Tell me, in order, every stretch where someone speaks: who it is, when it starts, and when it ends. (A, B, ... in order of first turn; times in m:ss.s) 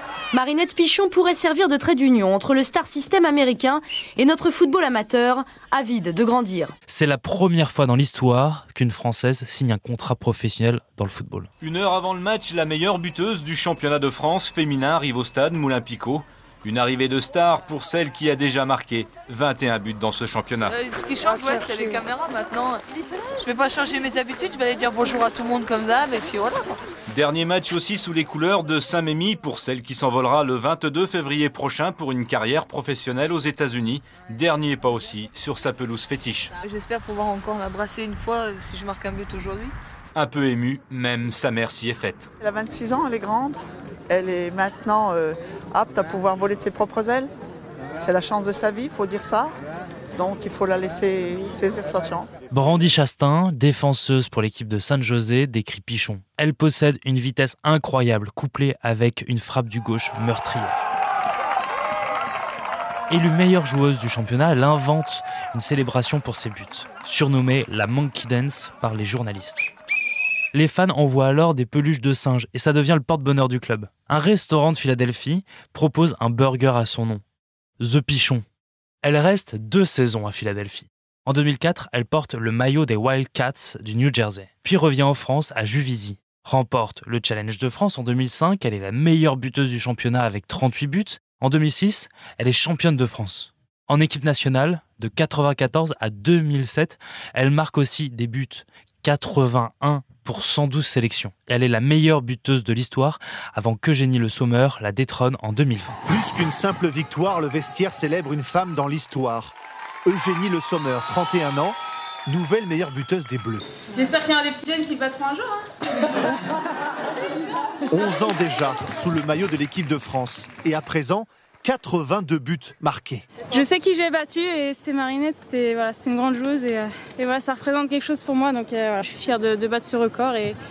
0:00.3-0:06.7 A
0:06.9-0:11.5 B
0:11.6-0:20.8 C
0:20.7-0:22.8 D
0:23.4-0:26.7 D
0:27.1-0:36.5 C
0:36.6-0:39.7 D
0:40.2-0:42.3 C
0:42.4-0:47.3 E
0:48.0-0:49.5 E
0:50.2-0:52.3 E
0:52.5-1:00.8 B
1:03.1-1:09.7 B
1:10.5-1:17.2 B
1:17.8-1:18.4 B
1:19.0-1:46.0 B
1:46.1-1:49.6 F
1:50.1-1:53.6 F
1:54.0-1:55.6 G
1:57.9-2:03.2 F
2:03.5-2:10.6 G